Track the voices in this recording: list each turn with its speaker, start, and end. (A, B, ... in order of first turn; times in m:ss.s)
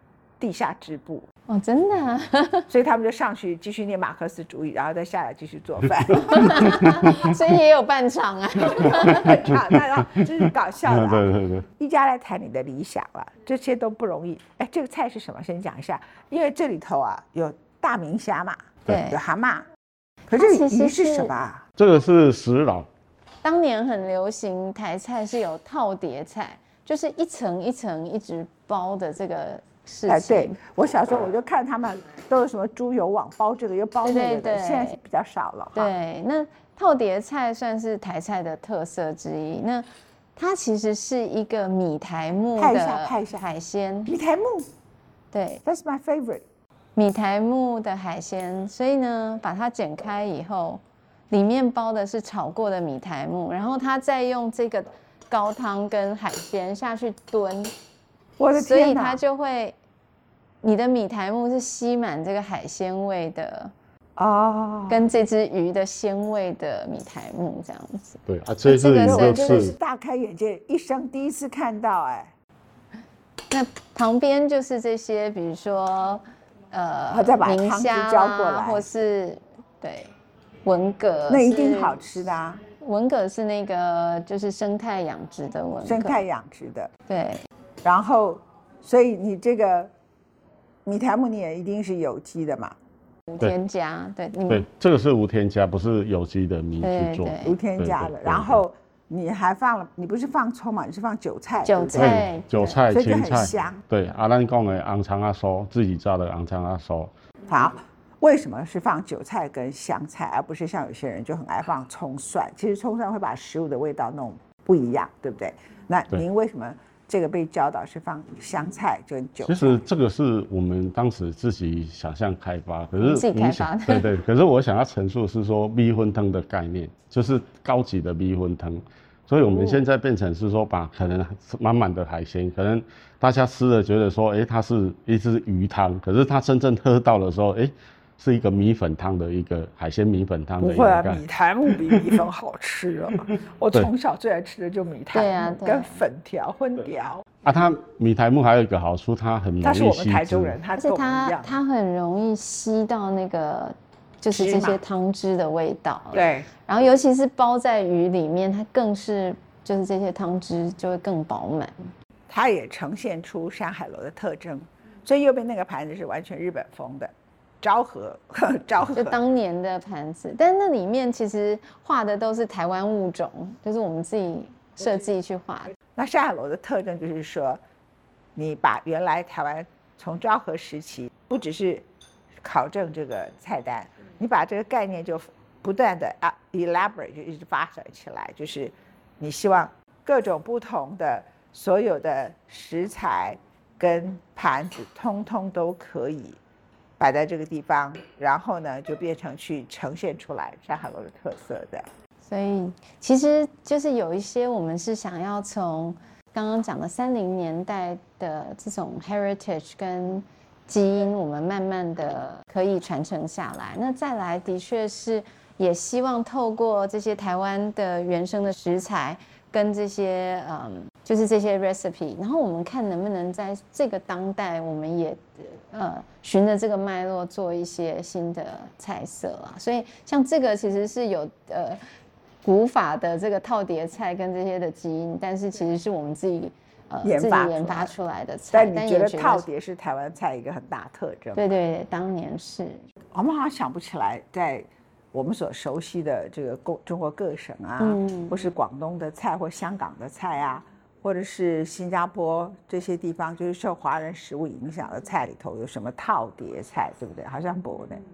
0:00.4-0:01.3 A
0:01.5-0:02.7 B
0:02.7-0:07.0 A
0:06.3-0:09.4 B
0:06.4-0:07.3 C
0:08.6-0:19.7 A
0:09.5-0:11.7 C
0:18.9-0:19.2 B
0:20.3-0:21.6 A
0:20.3-0:21.3 B
0:21.8-0:22.9 C
0:23.4-0:30.6 B
0:30.1-0:35.9 A
0:34.0-0:35.0 B
0:35.8-0:44.1 B
0:42.6-0:43.4 A
0:44.1-0:44.7 A
0:45.3-0:45.6 B
0:45.6-0:46.4 A
0:47.0-0:57.7 B
0:58.4-0:59.2 A
0:58.5-0:59.8 B
1:00.6-1:03.7 B
1:04.2-1:05.0 A
1:04.9-1:09.7 B
1:08.3-1:09.8 C
1:09.0-1:12.4 A
1:13.5-1:20.1 B
1:17.1-1:18.8 A
1:20.6-1:22.1 B
1:21.3-1:22.6 A
1:22.8-1:26.2 B
1:25.9-1:26.9 A
1:27.1-1:27.4 B
1:27.8-1:29.9 A
1:30.8-1:32.8 A
1:33.3-1:34.7 B
1:34.5-1:38.6 C
1:36.8-1:37.6 B
1:37.4-1:42.3 A
1:41.6-1:42.8 B
1:42.0-1:47.1 C
1:42.9-1:43.8 A
1:47.5-1:59.8 A
1:59.4-2:21.2 C
2:03.0-2:04.1 B
2:20.6-2:27.3 A
2:25.1-2:26.0 B
2:27.4-2:30.6 C
2:29.6-2:31.6 A
2:30.8-2:41.9 B
2:34.3-2:34.8 A
2:36.1-2:36.5 A
2:42.3-2:49.2 A
2:49.0-2:55.7 B
2:55.9-2:57.6 A
2:58.4-3:01.9 A
3:02.4-3:16.4 A
3:17.0-3:21.9 A
3:22.2-3:51.8 B
3:52.4-3:59.4 B
3:57.0-3:57.9 A
3:58.5-4:01.5 A
4:01.4-4:02.8 B
4:03.1-4:18.0 A
4:07.8-4:08.4 B